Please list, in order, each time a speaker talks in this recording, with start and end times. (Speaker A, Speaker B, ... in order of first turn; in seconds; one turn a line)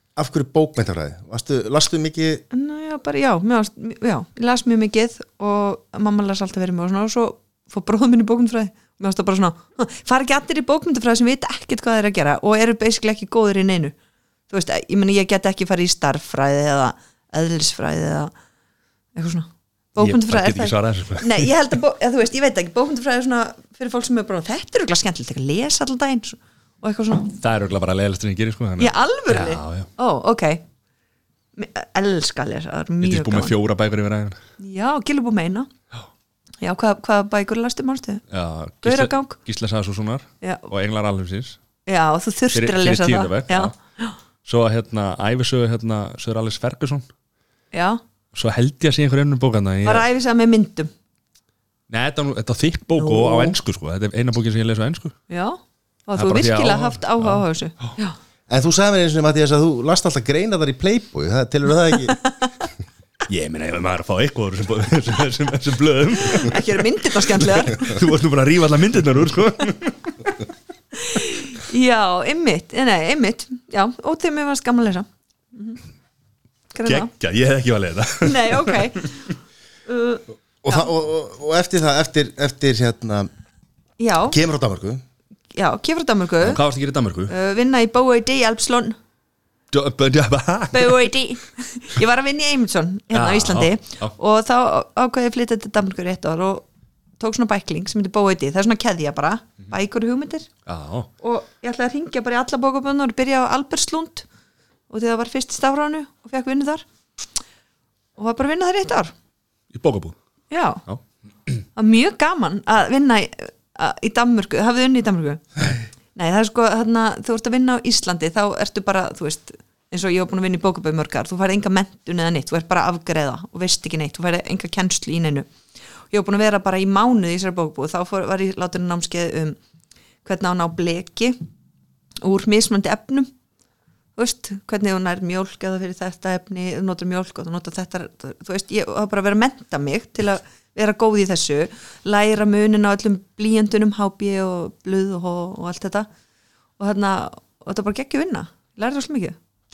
Speaker A: 0.1-2.4
Speaker B: 2.5-13.9
Speaker B: 14.5-18.3
Speaker B: 19.1-27.4
Speaker C: 20.0-21.6
Speaker C: 27.4-29.9
Speaker B: 28.8-30.6
Speaker B: 31.6-33.5
Speaker C: 33.0-34.4
Speaker B: 34.6-35.7
Speaker B: 36.6-38.2
Speaker C: 38.3-41.6
Speaker B: 38.8-39.4
Speaker B: 40.4-40.7
Speaker B: 41.9-44.1
Speaker C: 42.5-43.7
Speaker C: 44.4-47.1
Speaker B: 47.7-48.0
Speaker C: 48.3-50.0
Speaker B: 49.8-50.9
Speaker C: 51.9-55.1
Speaker B: 53.0-53.5
Speaker B: 55.3-58.1
Speaker C: 56.1-57.9
Speaker A: 58.5-62.2
Speaker B: 62.1-62.5
Speaker C: 63.3-70.3
Speaker B: 66.2-68.0
Speaker B: 70.9-75.8
Speaker B: 76.7-77.1
Speaker C: 76.8-79.0
Speaker B: 78.2-79.2
Speaker B: 79.9-80.9
Speaker A: 80.6-83.3
Speaker B: 84.0-84.4
Speaker A: 84.3-85.0
Speaker B: 85.5-86.6
Speaker C: 86.4-87.3
Speaker B: 87.3-89.0
Speaker C: 89.7-91.1
Speaker B: 90.7-96.7
Speaker C: 93.1-94.1
Speaker B: 97.2-100.5
Speaker C: 100.7-101.1
Speaker B: 101.2-104.2
Speaker B: 104.9-106.8
Speaker B: 108.2-109.1
Speaker C: 109.7-110.2
Speaker B: 110.5-110.8
Speaker B: 111.8-115.4
Speaker B: 116.1-125.5
Speaker B: 126.1-129.6
Speaker B: 130.2-131.4
Speaker B: 132.2-133.3
Speaker B: 134.2-146.1
Speaker B: 146.8-149.4